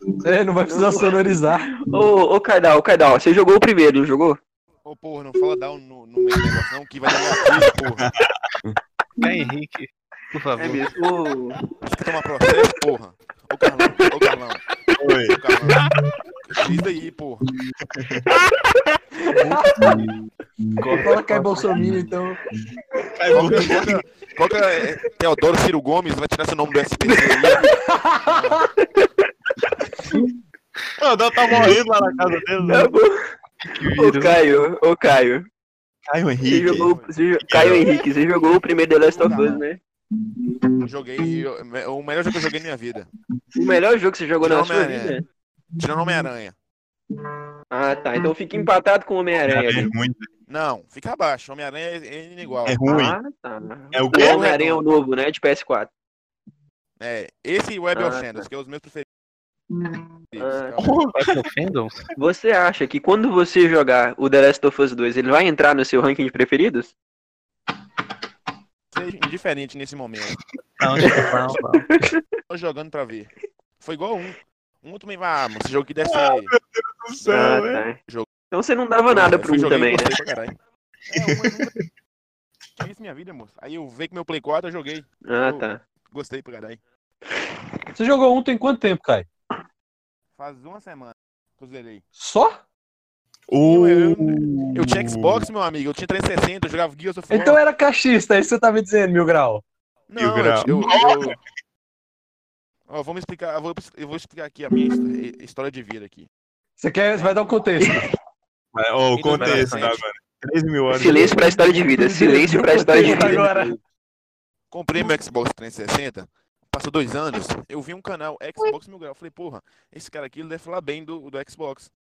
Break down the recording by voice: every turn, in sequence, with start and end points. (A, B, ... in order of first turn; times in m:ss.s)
0:00.2-0:01.7 A
0:00.7-0:01.1 B
0:01.7-0:04.4 B
0:04.9-0:08.0 C
0:07.6-0:08.2 D
0:09.2-0:10.9 E
0:10.6-0:11.6 B
0:11.8-0:14.6 C
0:15.0-0:15.9 D
0:15.3-0:15.9 C
0:16.5-0:17.4 C
0:17.9-0:18.3 D
0:19.3-0:19.9 A
0:20.8-0:22.4 A
0:23.1-0:24.0 D
0:23.3-0:27.7 C
0:27.7-0:28.6 A
0:28.2-0:28.6 C
0:28.8-0:29.3 B
0:31.0-0:32.9 D
0:32.7-0:33.2 B
0:33.6-0:34.5 E
0:34.0-0:35.4 B
0:36.1-0:38.0 D
0:36.4-0:39.8 B
0:36.7-0:37.1 C
0:39.2-0:39.6 C
0:40.8-0:43.1 C
0:43.5-0:45.2 B
0:44.4-0:45.2 C
0:45.8-0:46.5 C
0:47.7-0:49.9 B
0:49.5-0:50.2 D
0:50.5-0:52.8 C
0:52.6-0:53.2 D
0:52.9-0:55.9 B
0:53.9-0:54.4 D
0:54.1-0:54.9 C
0:57.0-0:59.0 C
0:57.9-0:58.5 B
1:00.3-1:01.0 C
1:00.4-1:00.8 B
1:00.8-1:01.4 D
1:01.2-1:02.0 E
1:02.1-1:06.9 B
1:08.9-1:10.4 C
1:10.8-1:11.9 E
1:10.9-1:11.2 D
1:11.0-1:12.2 B
1:12.5-1:16.5 C
1:16.0-1:17.8 D
1:17.2-1:18.3 C
1:17.3-1:18.0 B
1:18.5-1:20.2 B
1:19.1-1:20.5 C
1:21.1-1:21.8 C
1:21.2-1:21.8 D
1:22.8-1:26.8 C
1:25.2-1:25.8 B
1:27.9-1:29.3 A
1:30.4-1:32.0 C
1:32.2-1:32.6 A
1:33.5-1:35.5 D
1:33.6-1:37.6 C
1:37.3-1:39.6 A
1:40.1-1:41.4 C
1:40.1-1:41.4 D
1:42.9-1:46.3 C
1:46.8-1:48.0 A
1:47.1-1:48.0 C
1:48.7-1:51.4 D
1:49.2-1:50.0 C
1:49.2-1:49.9 E
1:50.9-1:53.5 B
1:51.6-1:53.8 A
1:54.7-2:01.9 C